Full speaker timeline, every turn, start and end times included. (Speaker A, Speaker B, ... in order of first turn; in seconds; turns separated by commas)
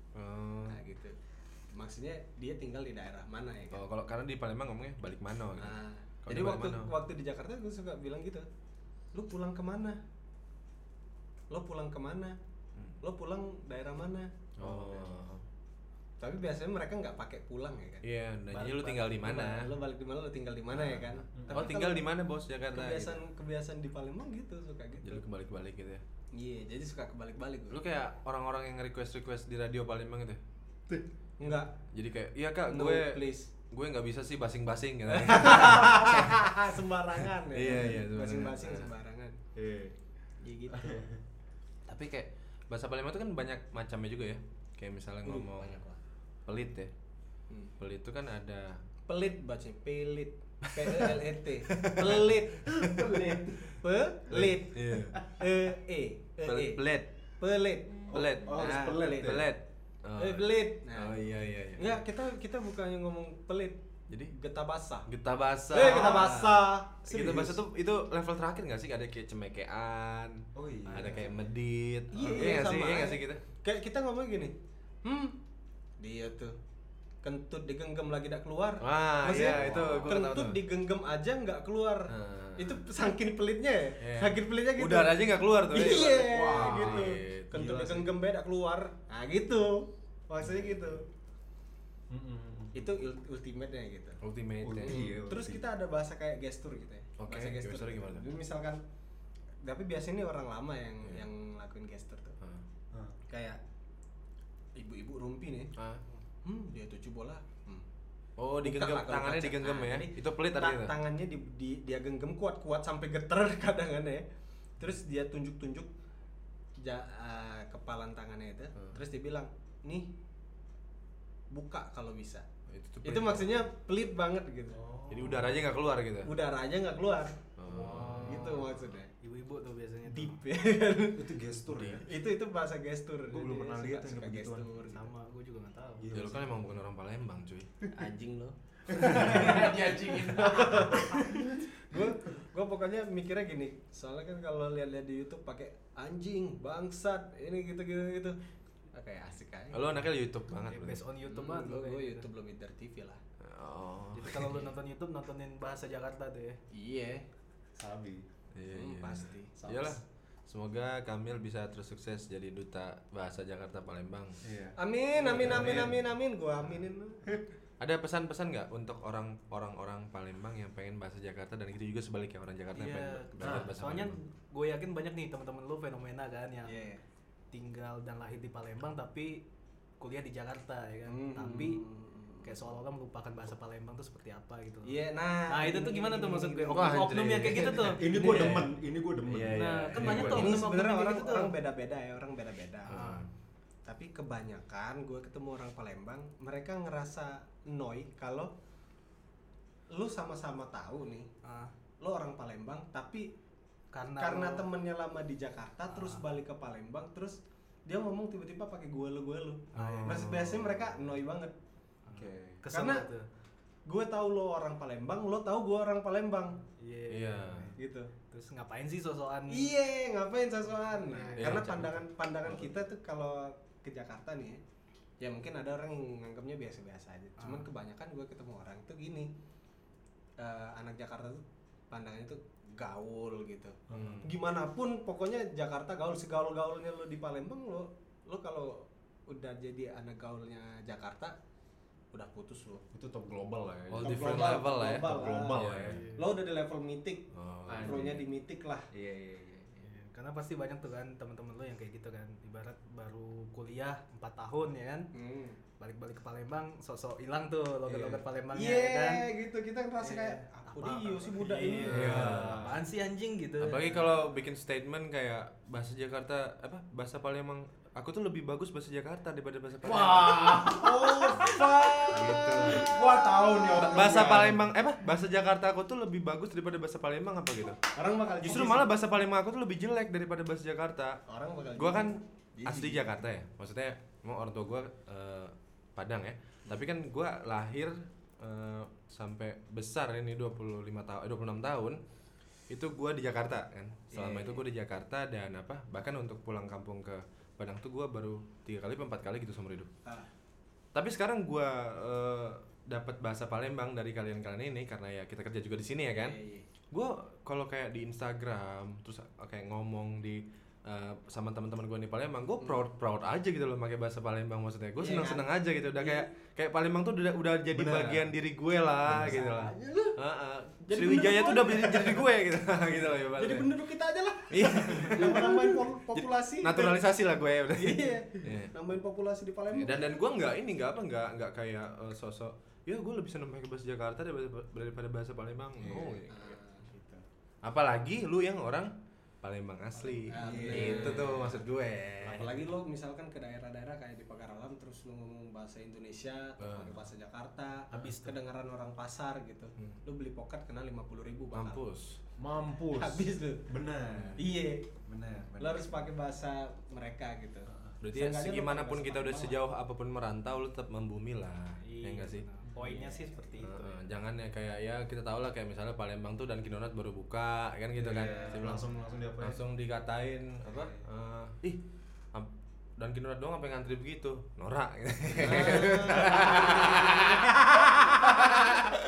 Speaker A: 0.1-0.8, Speaker B: 0.7-1.2, Speaker B: 1.7-3.9, Speaker A: 3.7-6.9, Speaker B: 5.6-8.5, Speaker B: 9.1-10.0, Speaker B: 11.5-12.4, Speaker B: 13.0-15.2, Speaker A: 14.6-15.4, Speaker B: 16.2-22.1, Speaker A: 18.0-19.7, Speaker A: 20.7-23.2, Speaker C: 21.4-21.7, Speaker B: 22.7-25.2, Speaker A: 25.0-26.0, Speaker B: 26.3-27.8, Speaker A: 27.7-30.4, Speaker B: 31.4-31.8, Speaker A: 31.9-36.7, Speaker B: 32.7-33.5, Speaker B: 35.1-39.4, Speaker A: 37.5-38.9, Speaker C: 39.5-40.0, Speaker B: 40.4-41.1, Speaker C: 40.7-41.2, Speaker A: 41.9-45.8, Speaker B: 45.2-46.0, Speaker A: 46.5-46.9, Speaker A: 47.8-48.8, Speaker B: 49.1-52.7, Speaker A: 50.7-53.3, Speaker C: 52.7-53.8, Speaker B: 53.7-56.8, Speaker A: 54.3-55.2, Speaker C: 55.1-55.5, Speaker A: 56.5-57.1, Speaker B: 57.4-59.5, Speaker C: 58.1-59.5, Speaker A: 58.1-62.0, Speaker B: 60.2-61.2, Speaker B: 61.8-63.8, Speaker B: 64.3-65.1, Speaker A: 65.1-73.4, Speaker B: 65.7-67.4, Speaker C: 65.8-66.5, Speaker C: 67.1-67.6, Speaker C: 70.5-71.3, Speaker B: 70.9-71.3, Speaker B: 72.1-75.3, Speaker C: 72.2-72.7, Speaker B: 76.0-76.6, Speaker B: 77.2-91.0, Speaker A: 78.8-80.6, Speaker C: 79.6-80.0, Speaker A: 82.1-82.8, Speaker A: 84.0-87.5, Speaker C: 86.2-88.2, Speaker C: 90.4-91.0, Speaker C: 92.1-93.0, Speaker B: 92.7-94.2, Speaker A: 94.2-95.0, Speaker C: 94.6-95.6, Speaker B: 94.8-98.8, Speaker A: 97.2-98.3, Speaker B: 99.6-102.4, Speaker A: 101.0-101.3, Speaker B: 103.3-103.6, Speaker B: 104.8-105.7, Speaker A: 105.8-106.0, Speaker B: 106.4-107.9, Speaker A: 108.4-111.0, Speaker B: 108.6-114.2, Speaker B: 114.8-115.9, Speaker B: 116.8-120.1, Speaker B: 121.5-122.5, Speaker A: 122.7-123.7, Speaker B: 123.0-124.8, Speaker C: 124.7-125.5, Speaker A: 125.1-126.3, Speaker B: 126.2-129.1, Speaker A: 127.6-128.7, Speaker C: 127.7-128.6, Speaker D: 127.8-128.3, Speaker D: 129.2-130.4, Speaker B: 130.1-131.3, Speaker C: 131.2-132.1, Speaker A: 131.7-132.1, Speaker B: 132.0-135.1, Speaker C: 133.3-134.7, Speaker D: 134.9-136.1, Speaker C: 136.0-136.6, Speaker A: 136.1-137.7, Speaker B: 137.9-148.4, Speaker C: 138.9-142.1, Speaker B: 148.9-150.0, Speaker A: 149.7-151.0, Speaker D: 150.6-152.3, Speaker B: 151.2-153.2, Speaker A: 153.4-154.7, Speaker D: 154.1-156.6, Speaker B: 156.7-157.3, Speaker C: 157.8-158.3, Speaker A: 158.5-164.4, Speaker B: 158.7-159.5, Speaker C: 159.6-160.0, Speaker C: 164.4-166.0, Speaker B: 164.8-167.5, Speaker A: 165.2-165.9, Speaker A: 167.8-174.2, Speaker D: 172.8-176.8, Speaker C: 173.4-173.7, Speaker B: 176.7-177.0, Speaker D: 177.5-179.4, Speaker D: 180.0-181.8, Speaker B: 181.1-182.6, Speaker D: 182.4-185.0, Speaker B: 184.8-187.8, Speaker D: 185.5-188.5, Speaker A: 186.7-188.7, Speaker C: 187.8-190.4, Speaker A: 189.3-190.7, Speaker D: 189.5-191.5, Speaker B: 190.0-193.1, Speaker A: 192.9-193.3, Speaker D: 192.9-193.3, Speaker B: 193.8-198.5, Speaker B: 199.9-201.3, Speaker D: 201.4-201.7, Speaker B: 202.0-203.3, Speaker D: 203.9-204.7, Speaker B: 204.2-211.6, Speaker D: 205.9-206.2, Speaker D: 209.7-210.3, Speaker C: 209.8-210.3, Speaker A: 210.0-211.0, Speaker D: 212.1-213.2, Speaker C: 212.1-212.6, Speaker B: 212.7-213.1, Speaker B: 213.9-216.6, Speaker D: 216.8-217.7, Speaker A: 217.1-217.7, Speaker B: 217.8-218.1, Speaker D: 218.3-219.7, Speaker B: 219.5-224.6, Speaker D: 220.9-221.6, Speaker A: 221.4-222.1, Speaker C: 222.4-222.8, Speaker B: 225.2-229.3, Speaker D: 227.4-227.7, Speaker B: 230.4-241.4, Speaker C: 233.9-234.2, Speaker A: 233.9-234.3, Speaker B: 242.1-242.8, Speaker C: 242.9-246.0, Speaker A: 243.9-246.0, Speaker B: 244.0-247.3, Speaker D: 245.9-246.2, Speaker A: 247.3-248.2, Speaker C: 247.7-248.2, Speaker B: 247.8-248.9, Speaker C: 248.9-249.9, Speaker D: 249.8-255.1, Speaker B: 255.1-255.6, Speaker D: 255.8-259.2, Speaker C: 257.9-258.2, Speaker B: 258.5-262.3, Speaker D: 260.0-264.1, Speaker A: 261.8-262.7, Speaker C: 261.8-262.8, Speaker A: 263.6-270.7, Speaker C: 269.8-274.7, Speaker B: 270.7-273.8, Speaker A: 272.1-273.0, Speaker A: 273.7-277.8, Speaker B: 277.9-278.9, Speaker A: 278.4-281.2, Speaker B: 281.3-283.2, Speaker A: 281.8-292.0, Speaker A: 292.7-299.9, Speaker B: 294.1-294.6, Speaker A: 300.9-306.4, Speaker B: 306.1-306.7, Speaker A: 306.9-323.7, Speaker B: 315.0-316.3, Speaker C: 317.7-318.2, Speaker C: 319.1-319.4, Speaker B: 319.2-320.1, Speaker B: 320.9-322.3, Speaker B: 323.4-327.0, Speaker A: 324.5-328.7, Speaker B: 327.7-330.0, Speaker A: 329.7-336.6, Speaker C: 335.8-336.2, Speaker B: 336.3-337.2, Speaker A: 337.6-342.7, Speaker B: 340.0-341.6, Speaker C: 340.3-341.4, Speaker B: 342.2-351.8, Speaker A: 346.6-347.0, Speaker C: 347.9-348.3, Speaker A: 351.5-352.2, Speaker C: 352.4-354.5, Speaker B: 352.8-353.6, Speaker A: 354.1-354.4, Speaker B: 354.4-354.9, Speaker C: 355.1-356.1, Speaker B: 355.6-359.6, Speaker C: 357.7-357.9, Speaker A: 358.0-362.4, Speaker D: 361.8-363.9, Speaker B: 362.8-363.9, Speaker A: 363.6-368.9, Speaker C: 368.0-369.6, Speaker A: 369.4-371.8, Speaker C: 370.6-371.1, Speaker A: 372.3-377.5, Speaker B: 375.4-378.8, Speaker C: 375.5-375.9, Speaker A: 378.3-378.9